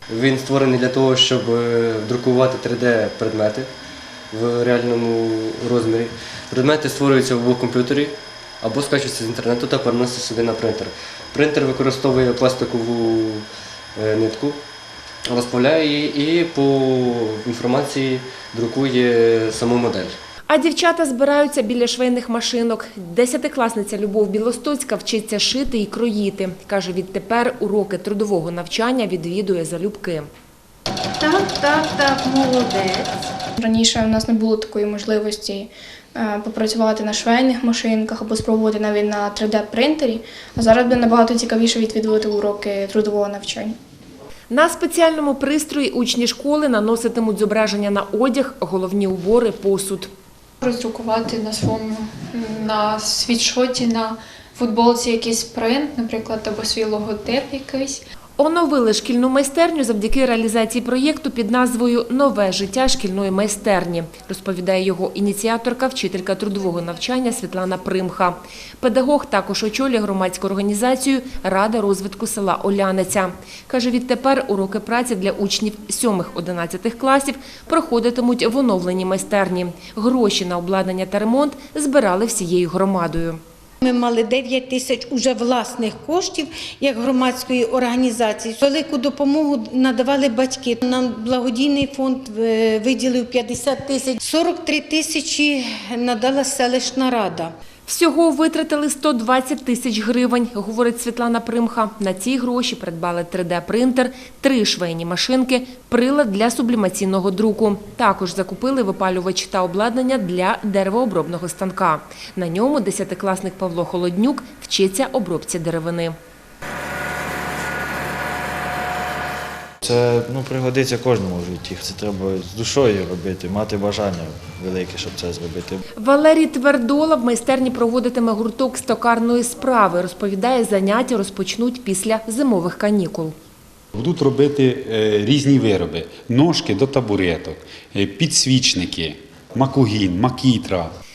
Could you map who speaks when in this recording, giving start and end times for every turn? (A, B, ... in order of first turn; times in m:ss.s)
0:00.1-0:03.7 A
0:04.3-0:13.4 A
0:14.0-0:14.6 A
0:15.3-0:20.2 A
0:20.5-0:30.3 B
0:31.2-0:33.2 C
0:33.6-0:43.8 D
0:44.5-0:50.1 B
0:50.6-0:58.0 E
0:58.4-1:23.4 B
1:23.8-1:37.5 C
1:37.9-1:56.2 B
1:59.8-2:05.8 F
2:06.0-2:13.3 B
2:14.0-2:20.9 G